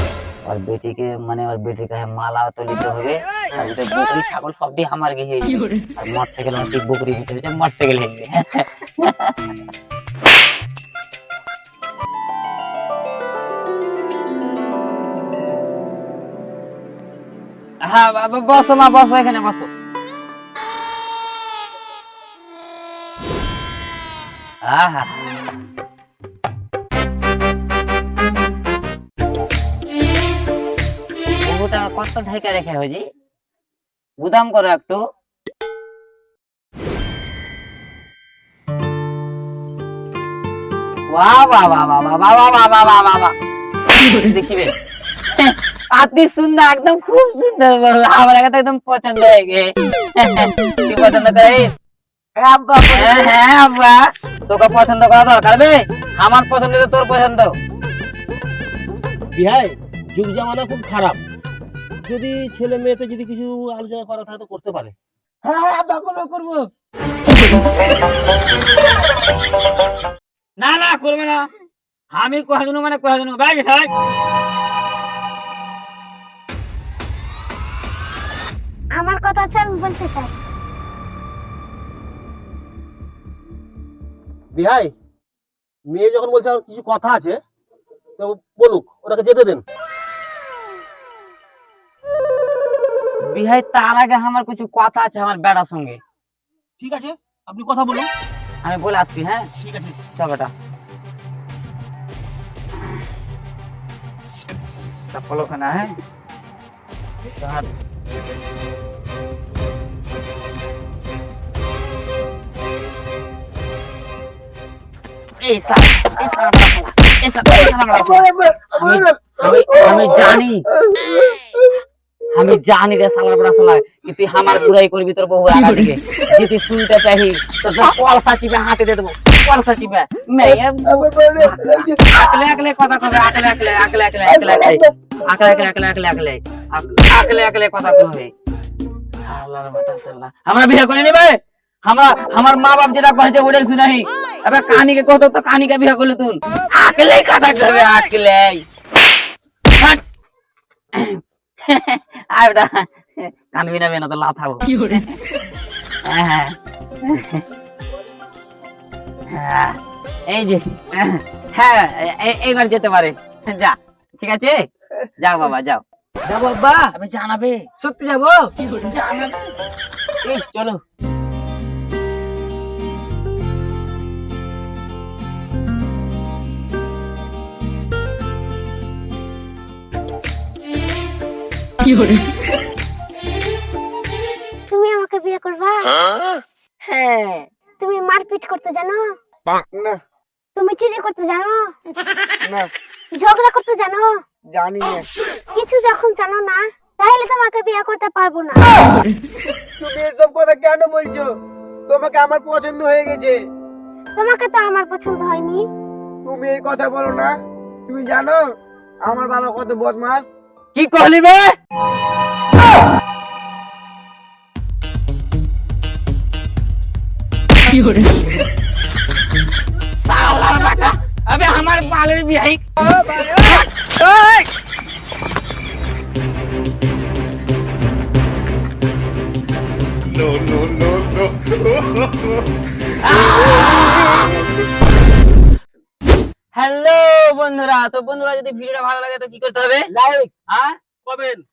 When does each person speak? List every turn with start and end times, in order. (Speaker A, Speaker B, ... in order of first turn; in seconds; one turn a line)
Speaker A: 0.4-9.3
Speaker A: 17.8-19.7
Speaker A: 24.6-25.5
Speaker A: 31.4-33.0
Speaker A: 34.2-35.0
Speaker A: 41.1-43.3
Speaker A: 43.9-44.7
Speaker A: 45.3-51.7
Speaker B: 52.4-53.3
Speaker A: 52.9-57.5
Speaker C: 59.3-61.2
Speaker C: 62.0-64.9
Speaker B: 65.4-66.7
Speaker A: 70.6-71.5
Speaker A: 72.1-73.9
Speaker D: 78.9-80.3
Speaker C: 84.5-84.9
Speaker C: 85.9-87.4
Speaker C: 88.2-89.6
Speaker A: 93.2-96.0
Speaker C: 96.8-98.1
Speaker A: 98.6-99.5
Speaker C: 99.6-100.0
Speaker A: 100.1-100.5
Speaker A: 105.1-106.0
Speaker A: 107.4-107.7
Speaker A: 115.4-120.7
Speaker B: 117.6-121.4
Speaker A: 122.3-138.3
Speaker B: 130.8-132.2
Speaker B: 134.3-134.8
Speaker A: 139.2-148.6
Speaker A: 150.9-155.1
Speaker A: 156.0-157.4
Speaker A: 159.3-164.7
Speaker A: 165.2-167.7
Speaker B: 167.8-168.5
Speaker A: 168.6-169.5
Speaker A: 170.2-170.8
Speaker D: 184.7-186.0
Speaker B: 186.8-187.5
Speaker D: 187.8-189.0
Speaker B: 189.7-190.0
Speaker D: 190.6-191.7
Speaker B: 192.4-192.7
Speaker D: 193.2-194.1
Speaker B: 194.5-195.1
Speaker D: 195.5-198.7
Speaker B: 199.8-201.3
Speaker B: 201.9-203.4
Speaker D: 204.2-205.7
Speaker B: 206.2-207.3
Speaker B: 207.9-208.5
Speaker B: 209.0-210.3
Speaker A: 210.7-211.5
Speaker A: 220.0-222.6
Speaker B: 222.8-223.6
Speaker A: 232.9-234.4
Speaker A: 236.5-239.9
Speaker A: 240.5-240.8
Speaker C: 241.0-241.4